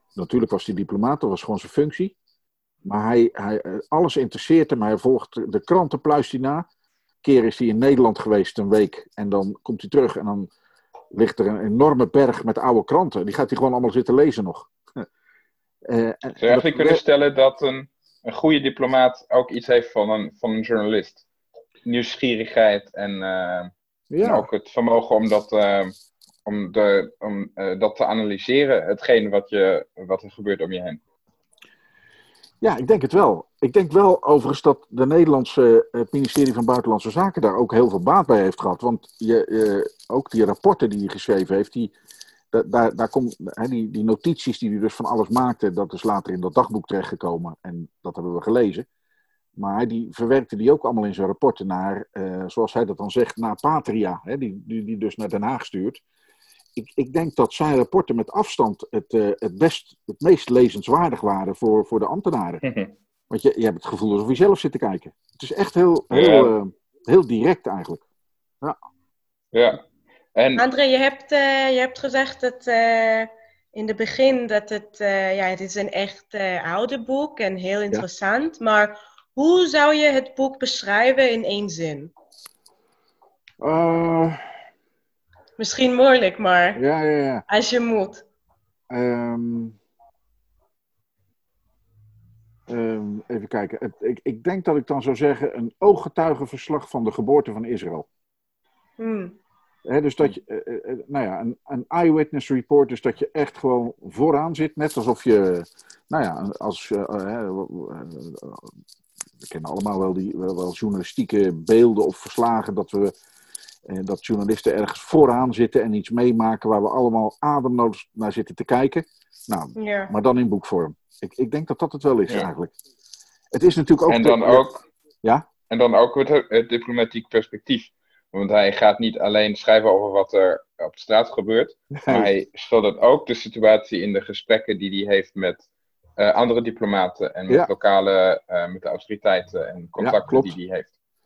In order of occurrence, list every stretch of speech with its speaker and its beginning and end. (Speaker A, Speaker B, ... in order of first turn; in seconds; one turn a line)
Speaker A: 0.1-2.1
Speaker A: 2.8-6.7
Speaker A: 7.2-10.5
Speaker A: 11.1-14.7
Speaker A: 15.8-17.0
Speaker B: 16.4-21.2
Speaker B: 21.8-25.9
Speaker A: 24.1-24.5
Speaker B: 26.4-31.0
Speaker A: 32.6-41.9
Speaker A: 42.5-48.9
Speaker A: 49.5-56.0
Speaker A: 56.8-62.6
Speaker B: 62.6-62.9
Speaker A: 63.3-68.0
Speaker B: 66.1-66.5
Speaker B: 69.5-69.8
Speaker B: 70.3-70.6
Speaker C: 70.6-82.1
Speaker A: 83.6-84.4
Speaker C: 85.6-86.8
Speaker A: 86.7-87.4
Speaker C: 87.5-88.2
Speaker A: 88.9-89.8
Speaker A: 92.7-98.0
Speaker C: 99.0-99.3
Speaker A: 99.8-108.7
Speaker A: 109.4-113.1
Speaker A: 113.9-122.7
Speaker C: 119.8-120.1
Speaker A: 123.5-124.7
Speaker B: 124.1-124.8
Speaker B: 125.7-135.6
Speaker A: 132.0-132.3
Speaker B: 136.2-140.9
Speaker A: 140.0-140.5